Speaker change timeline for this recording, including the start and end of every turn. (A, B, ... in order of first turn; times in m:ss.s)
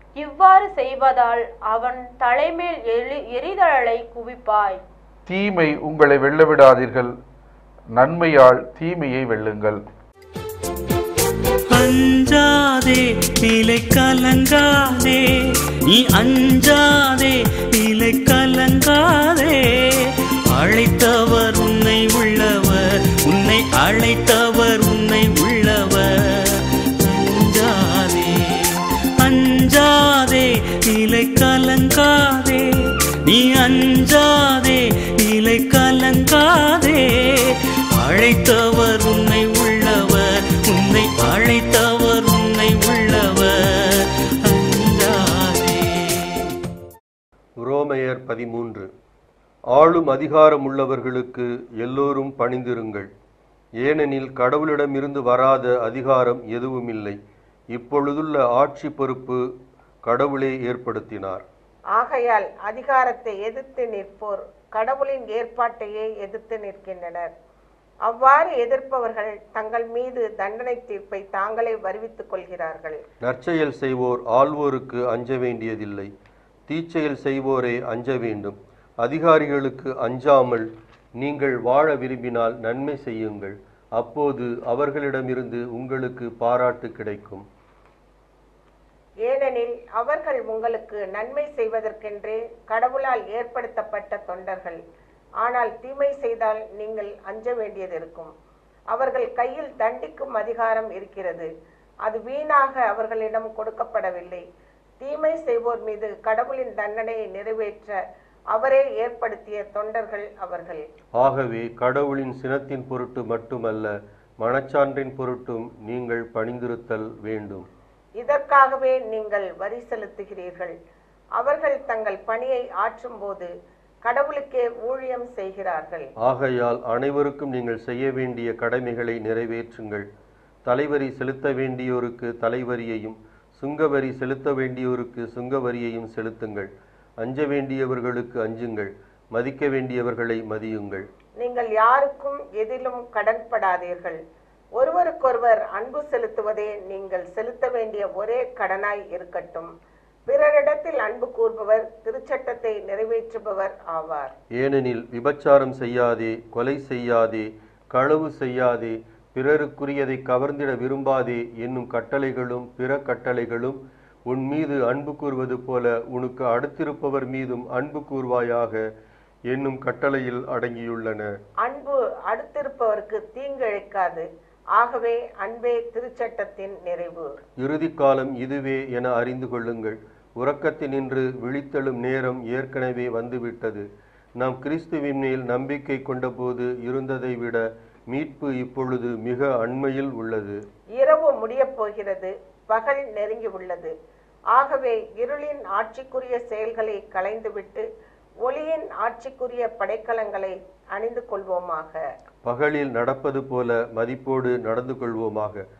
0:00.2-0:04.8 A
0:05.2-0:07.1 B
0:08.0-0:09.8 B
0:11.7-0:15.3 C
0:15.9-0:26.1 C
0:27.0-0:28.7 C
0:29.2-0:32.7 C
0:33.2-0:46.3 C
0:47.6-0:48.8 D
0:49.7-0:53.1 D
0:53.8-0:57.1 D
0:57.7-0:59.4 D
1:00.1-1:01.4 D
1:01.9-1:07.3 E
1:08.0-1:13.0 E
1:13.2-1:16.1 D
1:16.7-1:20.6 D
1:21.2-1:27.4 D
1:29.2-1:34.8 E
1:35.4-1:38.3 E
1:38.9-1:41.5 E
1:42.0-1:44.4 E
1:45.0-1:48.0 E
1:48.5-1:50.8 E
1:51.2-1:53.9 D
1:54.4-1:57.6 D
1:58.2-2:00.7 E
2:01.4-2:03.5 E
2:04.0-2:06.1 E
2:06.2-2:10.0 D
2:10.6-2:16.7 D
2:17.2-2:21.0 D
2:21.4-2:24.2 E
2:24.7-2:29.7 E
2:30.3-2:34.3 E
2:34.6-2:43.8 D
2:44.3-2:48.8 D
2:49.5-2:51.3 D
2:51.6-2:57.3 E
2:57.6-3:03.8 D
3:04.4-3:07.6 D
3:08.1-3:10.6 D
3:10.9-3:13.9 E
3:14.5-3:17.8 E
3:18.4-3:22.0 E
3:22.4-3:25.6 D